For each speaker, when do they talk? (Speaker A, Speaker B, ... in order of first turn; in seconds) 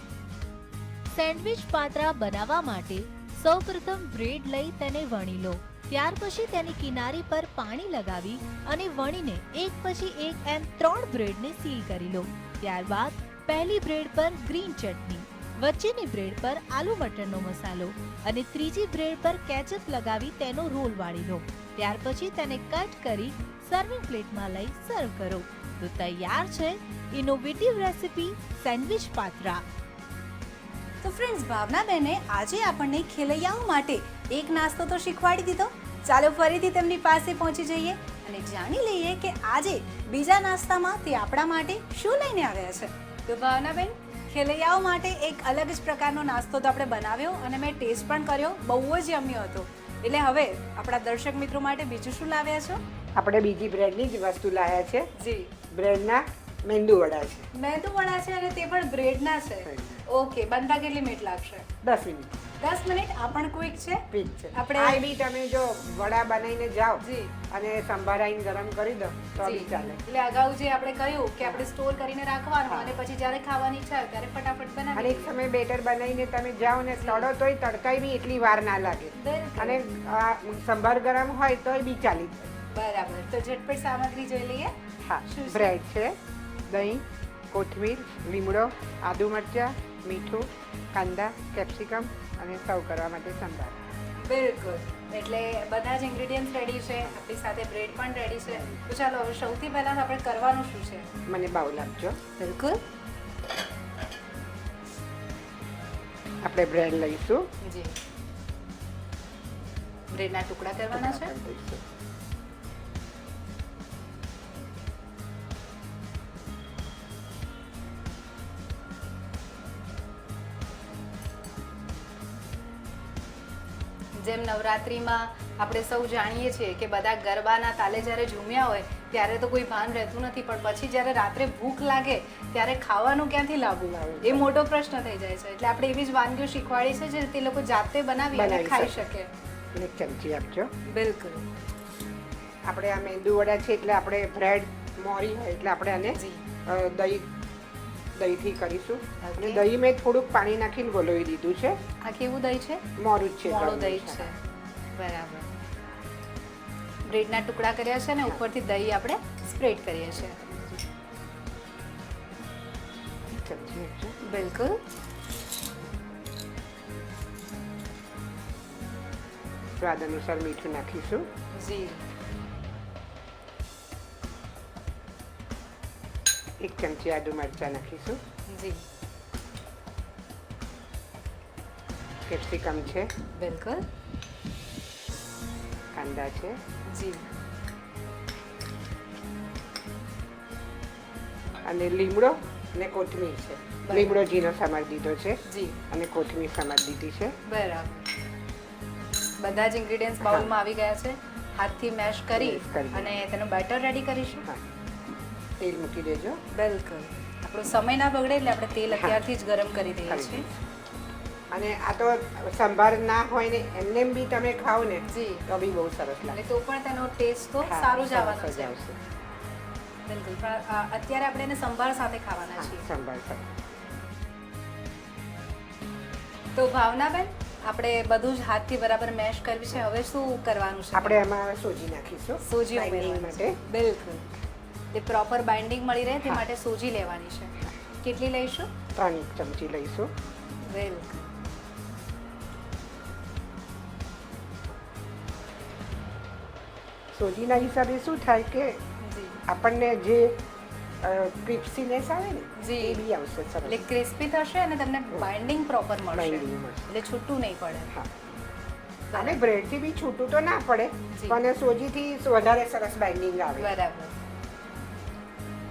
Speaker A: 1.1-29.6
Speaker B: 31.0-52.8, 55.1-55.5, 57.5-61.7, 62.6-65.0, 67.0-67.3, 69.4-75.3, 77.0-77.3, 79.1-79.8, 82.7-84.7, 85.3-85.8, 94.2-101.1, 102.4-102.8, 107.6-107.9, 110.1-111.3, 124.2-139.3, 140.9-141.5, 146.2-146.4, 149.2-149.7, 152.0-152.8, 153.4-154.4, 154.9-155.6, 157.1-160.4, 164.2-164.8, 171.5-172.0, 178.5-178.8, 183.3-183.8, 186.9-187.2, 193.8-194.3, 195.5-195.8, 197.5-198.1, 199.4-204.5, 206.5-210.5, 215.1-215.4, 216.3-218.8, 220.1-222.9, 226.6-231.3, 232.4-234.3, 234.9-238.7, 240.7-241.3, 249.0-249.4, 252.6-253.0, 253.6-257.9, 259.1-259.4, 261.1-261.4, 263.6-264.1
Speaker C: 53.2-55.1, 55.7-57.5, 59.6-60.1, 61.8-62.4, 64.1-70.0, 71.4-71.7, 72.7-73.0, 74.9-82.5, 85.0-93.8, 98.5-98.8, 101.3-102.2, 106.4-107.5, 110.9-111.8, 133.9-134.5, 138.3-139.1, 139.7-140.7, 142.7-147.3, 148.2-151.8, 153.0-154.3, 160.1-160.8, 163.3-164.2, 169.8-171.3, 176.6-178.2, 182.3-183.1, 185.9-186.6, 191.6-197.3, 200.2-200.5, 202.3-203.2, 205.6-206.4, 208.9-209.2, 210.1-210.6, 211.5-216.4, 217.6-219.0, 222.6-223.6, 230.9-233.6, 238.9-240.1, 247.1-248.8, 249.5-250.4, 251.0-253.8, 256.1-256.9, 259.1-263.8